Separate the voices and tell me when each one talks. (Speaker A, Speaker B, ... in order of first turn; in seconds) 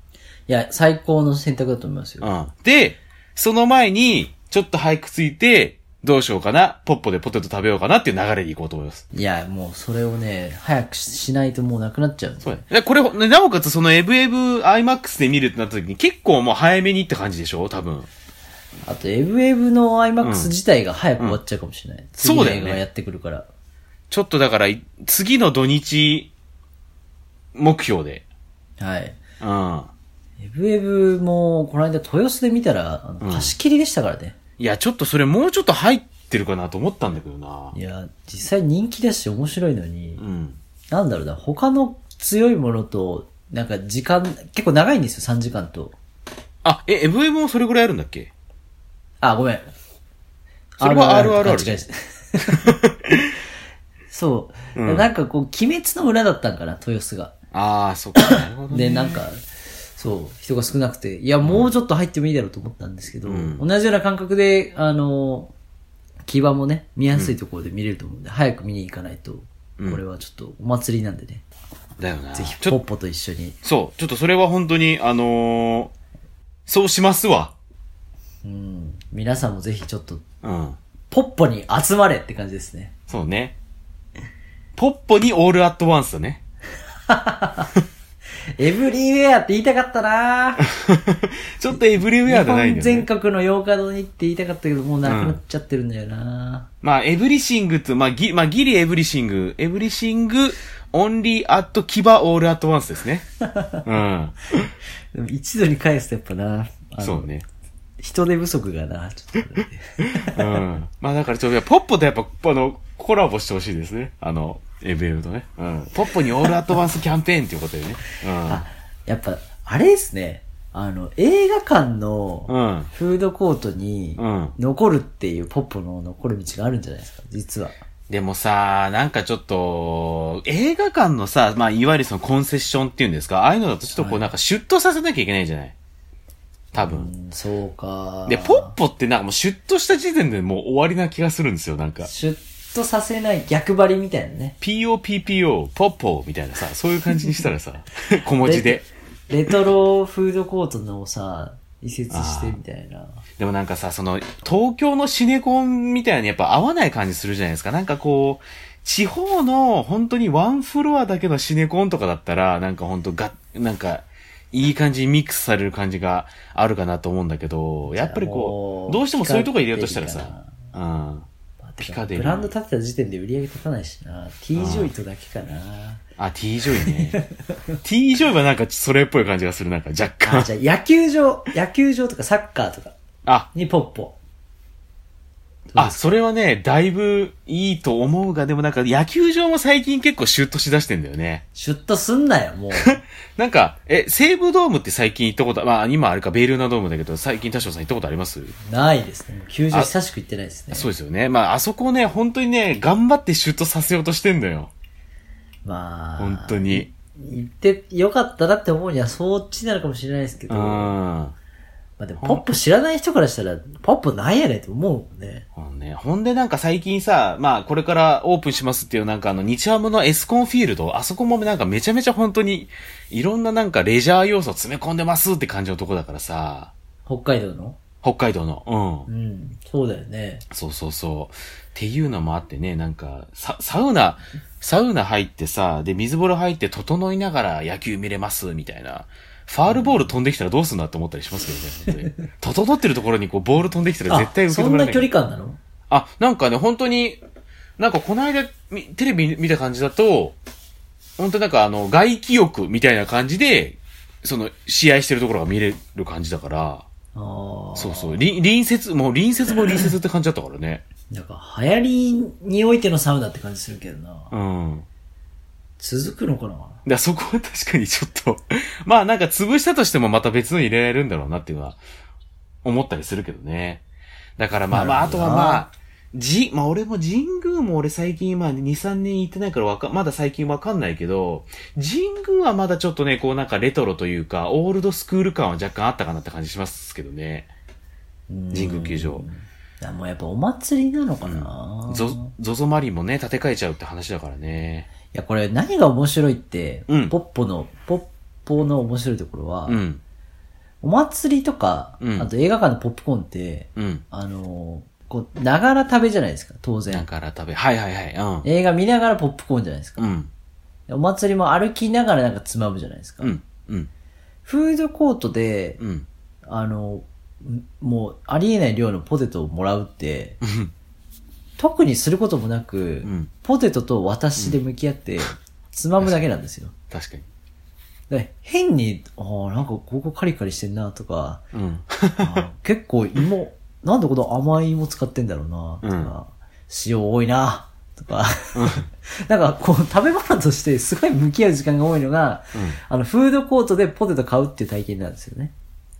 Speaker A: 0.5-2.3, 9.1-12.6, 18.8-23.5, 28.8-29.2, 30.4-34.4, 37.7-40.2, 40.9-46.0, 49.2-49.7, 50.8-52.7, 54.1-57.3, 58.2-59.5, 60.0-65.5, 66.3-71.4, 72.3-73.5, 78.4-80.2, 81.1-82.9, 87.1-87.7, 88.6-90.7, 91.7-96.7, 103.4-103.8, 105.1-107.3, 108.0-110.6, 118.4-127.8, 133.9-134.3, 136.7-138.7, 142.0-144.6, 148.4-153.2, 167.8-170.6, 171.6-176.0, 176.7-177.7, 180.2-182.9, 183.5-184.2, 185.7-186.0, 191.5-193.0, 198.6-200.9, 205.6-210.9, 212.0-215.4, 227.1-227.8, 229.1-230.4, 239.7-240.1, 244.1-245.6, 257.1-258.2, 261.1-264.3, 265.8-266.8, 274.7-275.6, 288.3-292.3, 295.1-299.8, 300.8-307.1, 308.4-310.1, 310.9-313.4, 314.4-315.8, 316.4-320.4, 321.6-326.7, 328.1-331.4, 332.2-345.5
Speaker B: 2.2-9.0, 12.4-18.1, 20.2-20.5, 22.2-22.8, 24.1-26.3, 27.5-28.2, 29.4-29.9, 33.2-33.5, 34.6-37.7, 40.2-40.6, 46.6-48.3, 50.8-51.8, 52.6-53.3, 54.7-55.1, 57.5-59.2, 61.4-61.7, 63.2-63.6, 72.0-72.8, 73.6-75.9, 76.7-77.5, 80.4-80.8, 83.1-83.5, 84.8-86.4, 90.7-93.1, 95.0-95.4, 96.8-103.2, 103.8-104.7, 107.0-107.4, 110.2-118.6, 122.5-122.9, 124.2-124.5, 128.1-135.7, 136.7-137.1, 138.3-142.1, 144.6-148.8, 152.1-152.6, 153.4-171.3, 171.8-172.5, 174.6-174.9, 176.2-177.2, 177.8-180.5, 185.8-191.4, 192.8-198.5, 200.7-204.7, 206.2-206.9, 210.5-211.3, 215.6-226.7, 228.0-229.1, 230.5-245.1, 245.9-247.2, 247.8-250.3, 251.2-256.9, 257.8-260.8, 264.3-264.9, 266.8-271.8, 272.6-273.8, 274.4-287.5, 288.5-289.2, 291.2-294.9, 296.9-297.1, 299.7-300.0, 302.0-302.3, 303.8-304.0, 306.9-308.4, 310.0-310.3, 313.2-313.9, 315.8-316.1, 320.4-320.7, 323.0-323.3, 326.9-327.2, 331.5-332.4, 335.8-336.1, 338.5-338.9, 342.5-342.8